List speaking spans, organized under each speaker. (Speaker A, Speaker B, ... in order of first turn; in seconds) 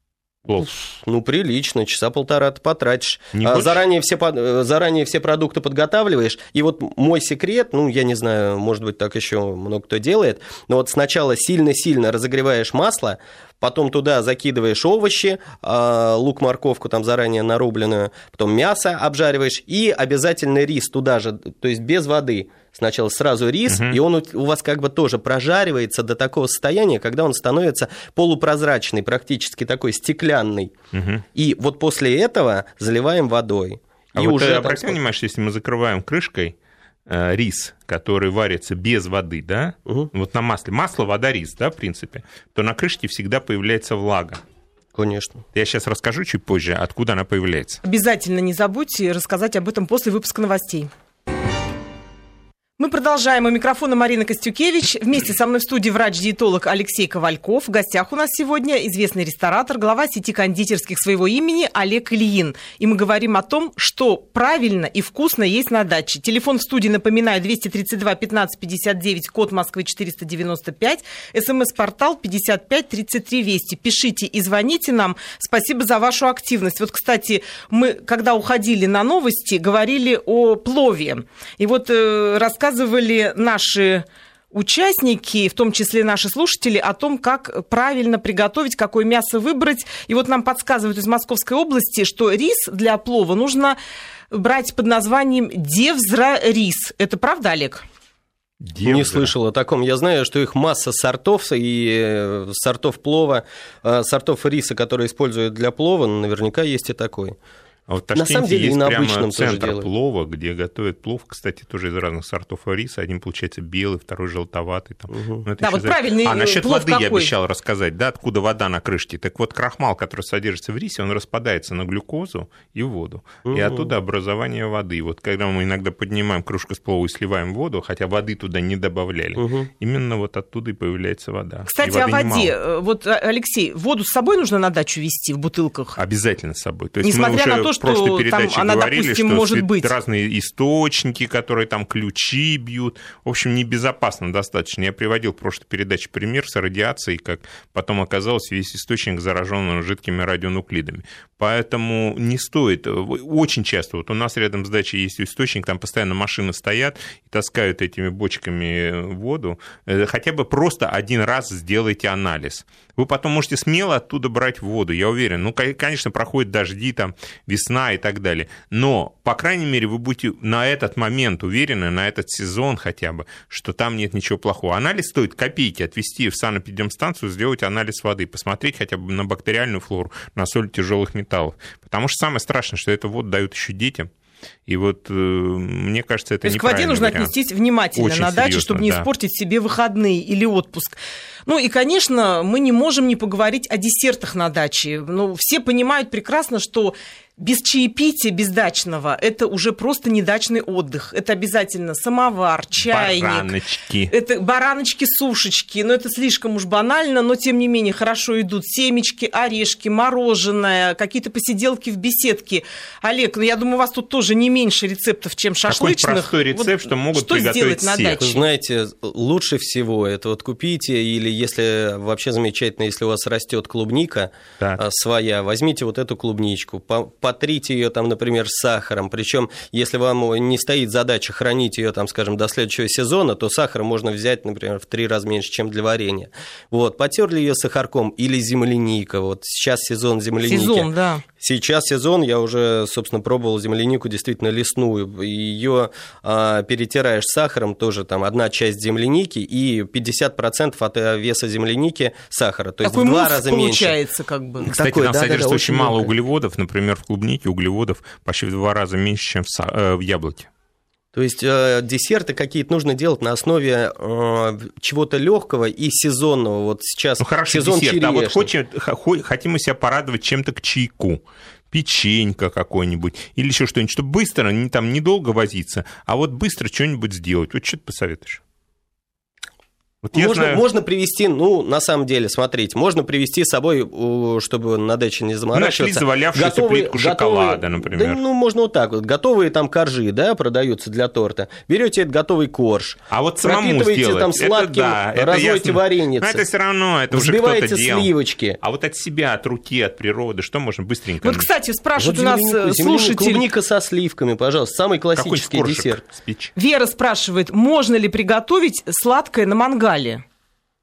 Speaker A: 0.5-0.7, 3.3-3.8, 23.7-24.0, 30.9-31.2, 34.1-36.5, 37.1-44.4, 45.5-47.8, 98.6-99.3, 107.9-132.5, 136.0-184.1, 184.7-187.3, 187.9-189.1, 202.8-204.1, 215.7-218.2, 254.7-260.5, 267.2-278.4, 280.0-280.6, 285.5-288.2, 293.1-301.5, 305.1-306.5
Speaker B: 0.5-30.7, 31.3-35.0, 44.9-45.4, 98.8-107.4, 108.1-109.9, 123.5-123.9, 129.4-129.7, 218.2-253.9, 254.6-256.1, 261.1-268.5, 280.1-296.4, 297.1-298.6, 302.0-306.0
Speaker C: 47.8-50.9, 52.8-93.8, 94.3-97.8, 115.6-117.3, 131.7-136.0, 137.0-139.9, 186.4-203.5, 204.1-218.4, 240.4-241.2, 252.8-254.7, 301.2-303.4, 306.6-310.2